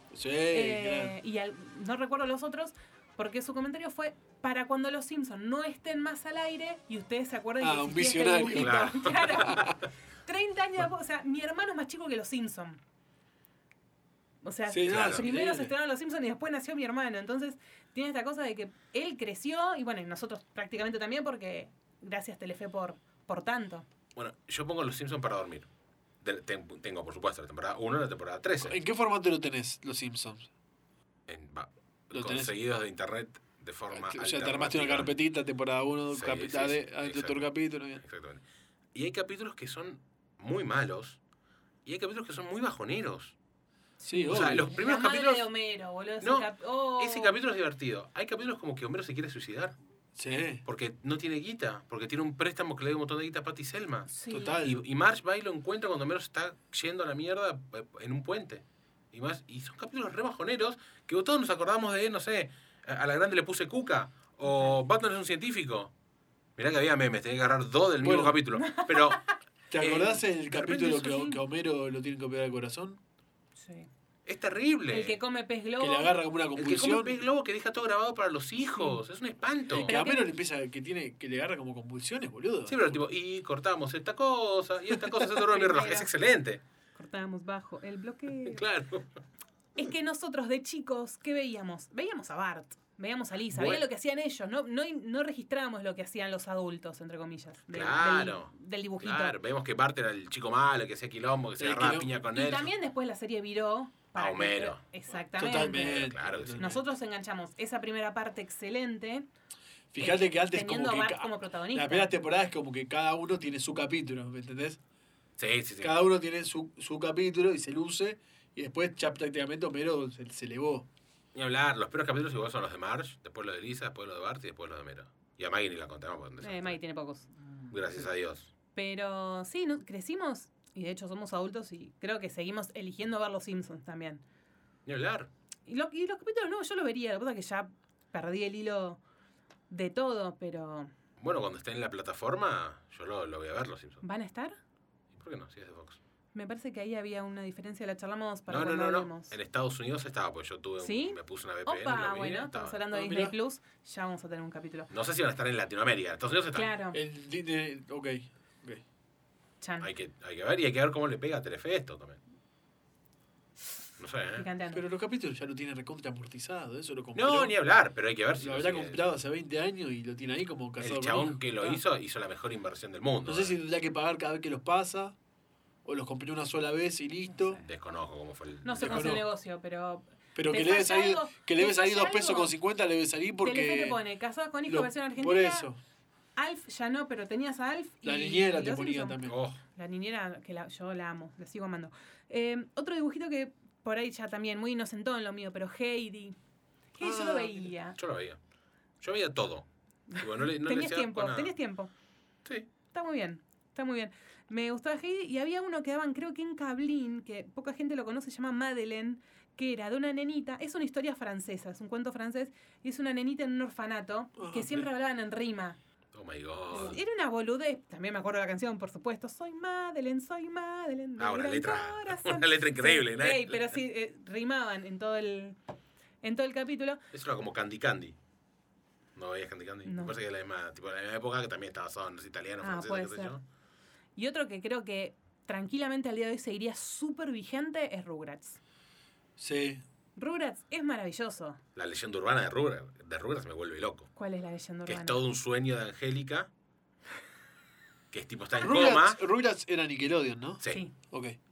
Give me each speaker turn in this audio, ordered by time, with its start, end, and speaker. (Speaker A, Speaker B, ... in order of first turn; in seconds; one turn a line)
Speaker A: 0.1-1.2
Speaker B: 0.5-9.7
Speaker A: 7.6-9.8
Speaker C: 8.6-9.7
Speaker B: 10.3-12.8
Speaker B: 14.4-23.9
Speaker A: 14.7-15.7
Speaker C: 14.9-15.2
Speaker C: 24.2-25.7
Speaker C: 26.2-28.8
Speaker A: 28.6-30.5
Speaker C: 31.3-35.1
Speaker A: 32.1-32.5
Speaker A: 33.9-38.0
Speaker C: 36.1-37.5
Speaker C: 38.0-38.4
Speaker C: 38.9-41.2
Speaker C: 41.9-43.4
Speaker B: 44.0-47.3
Speaker A: 44.1-44.7
Speaker C: 44.3-45.5
Speaker C: 46.2-49.8
Speaker A: 50.2-50.6
Speaker C: 50.6-54.1
Speaker B: 54.1-54.6
Speaker A: 54.3-54.8
Speaker C: 54.6-65.9
Speaker B: 64.4-64.8
Speaker C: 66.6-69.2
Speaker A: 68.0-68.4
Speaker B: 68.6-69.2
Speaker A: 69.7-73.0
Speaker C: 69.8-71.0
Speaker B: 70.7-71.4
Speaker B: 73.6-73.9
Speaker C: 74.3-75.2
Speaker B: 74.9-76.2
Speaker A: 75.8-77.2
Speaker C: 76.6-79.9
Speaker A: 79.7-83.0
Speaker B: 79.8-80.3
Speaker C: 82.7-86.6
Speaker B: 85.5-86.1
Speaker B: 87.0-88.6
Speaker C: 88.5-89.1
Speaker B: 89.8-99.4
Speaker C: 93.5-93.8
Speaker C: 97.7-102.7
Speaker A: 101.6-102.1
Speaker B: 102.3-109.3
Speaker C: 104.2-104.8
Speaker A: 105.4-106.8
Speaker C: 105.5-106.8
Speaker A: 109.9-114.8
Speaker B: 110.0-112.1
Speaker C: 115.4-116.0
Speaker A: 115.8-120.9
Speaker C: 121.3-126.8
Speaker B: 126.4-127.3
Speaker C: 127.7-128.5
Speaker B: 128.8-134.2
Speaker C: 134.9-135.3
Speaker B: 135.7-139.0
Speaker B: 139.7-140.9
Speaker C: 141.2-144.0
Speaker B: 144.0-144.6
Speaker C: 145.1-146.0
Speaker B: 146.3-149.3
Speaker C: 148.5-152.8
Speaker B: 150.8-154.9
Speaker A: 152.9-153.3
Speaker C: 154.9-156.7
Speaker B: 156.5-157.0
Speaker A: 156.9-158.8
Speaker B: 159.6-159.9
Speaker C: 159.8-162.2
Speaker C: 164.0-164.5
Speaker B: 164.4-164.8
Speaker A: 164.7-167.5
Speaker C: 167.2-169.2
Speaker A: 168.4-171.8
Speaker C: 170.8-173.6
Speaker A: 173.2-175.2
Speaker A: 175.8-177.6
Speaker B: 177.3-177.6
Speaker C: 177.6-179.2
Speaker B: 178.6-182.6
Speaker A: 178.8-179.3
Speaker A: 180.3-184.0
Speaker B: 183.4-185.7
Speaker A: 184.7-185.8
Speaker B: 186.4-189.2
Speaker A: 188.0-189.4
Speaker C: 189.2-189.6
Speaker B: 189.8-196.4
Speaker B: 196.9-198.0
Speaker A: 197.0-197.7
Speaker C: 198.0-198.4
Speaker C: 199.0-201.5
Speaker B: 200.1-201.9
Speaker B: 202.9-215.8
Speaker A: 214.4-214.9
Speaker C: 216.1-217.0
Speaker B: 216.7-225.6
Speaker C: 221.2-223.8
Speaker B: 226.2-227.0
Speaker C: 227.1-228.2
Speaker C: 229.2-233.4
Speaker B: 229.8-230.2
Speaker B: 232.6-233.3
Speaker B: 234.2-238.6
Speaker A: 239.4-239.8
Speaker B: 240.2-241.6
Speaker C: 241.8-244.1
Speaker B: 244.2-245.2
Speaker C: 244.9-246.5
Speaker C: 248.1-249.2
Speaker A: 248.6-251.4